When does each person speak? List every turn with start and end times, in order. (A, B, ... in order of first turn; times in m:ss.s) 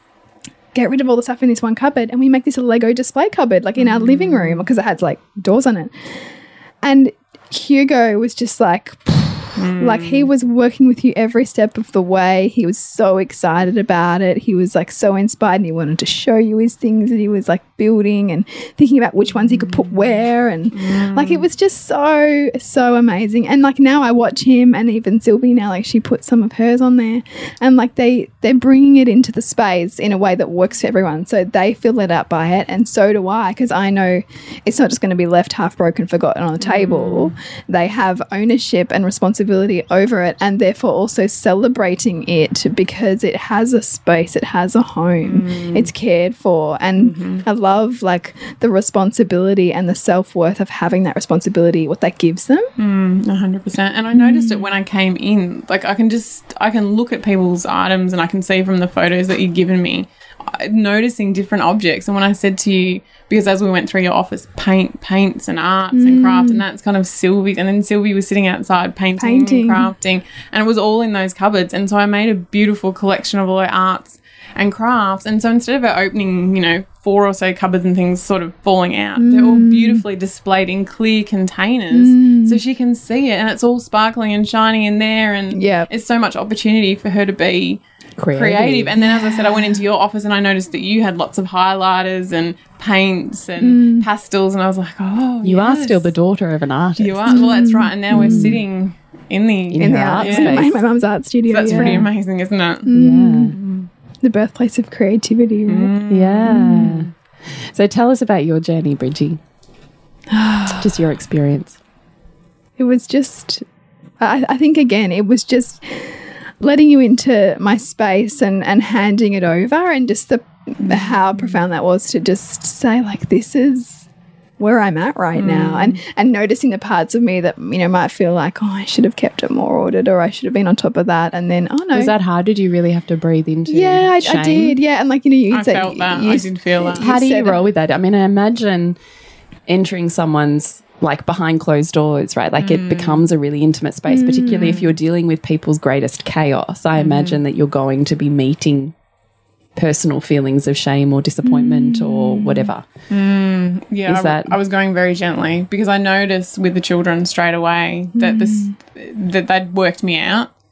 0:00.7-0:06.1 A
0:03.8-0:04.6 B
0:06.8-0:52.7 A
0:09.6-0:10.3 B
0:20.7-0:21.4 B
0:36.6-0:37.3 B
0:45.2-0:45.9 B
0:47.0-0:47.4 B
0:52.8-1:27.8 B
0:54.1-0:54.7 A
1:05.9-1:06.6 A
1:09.2-1:09.9 A
1:19.2-1:20.0 A
1:21.9-1:22.6 A
1:25.5-1:25.9 A
1:28.2-1:28.9 C
1:28.3-1:36.1 B
1:29.0-1:29.8 A
1:33.6-1:34.1 A
1:35.4-1:37.6 C
1:37.0-1:40.7 B
1:37.3-1:38.5 A
1:38.1-1:38.6 C
1:39.7-1:40.8 C
1:39.8-1:42.1 A
1:41.5-1:42.9 B
1:41.7-1:42.1 C
1:42.8-1:43.5 A
1:42.9-1:43.6 C
1:43.5-1:43.9 B
1:44.2-1:47.0 A
1:45.6-1:47.0 B
1:46.1-1:49.4 C
1:50.3-1:50.9 A
1:50.7-1:51.8 C
1:52.8-1:53.6 A
1:54.2-2:04.1 A
2:00.9-2:01.6 B
2:04.6-2:12.1 A
2:05.4-2:06.0 B
2:11.9-2:14.8 C
2:13.7-2:17.6 A
2:15.5-2:17.1 B
2:17.0-2:19.0 C
2:19.7-2:28.9 C
2:22.6-2:23.2 B
2:24.1-2:24.8 A
2:27.0-2:27.4 B
2:29.8-2:32.8 C
2:31.4-2:32.7 A
2:33.1-2:40.5 B
2:34.1-2:34.6 C
2:38.1-2:38.7 A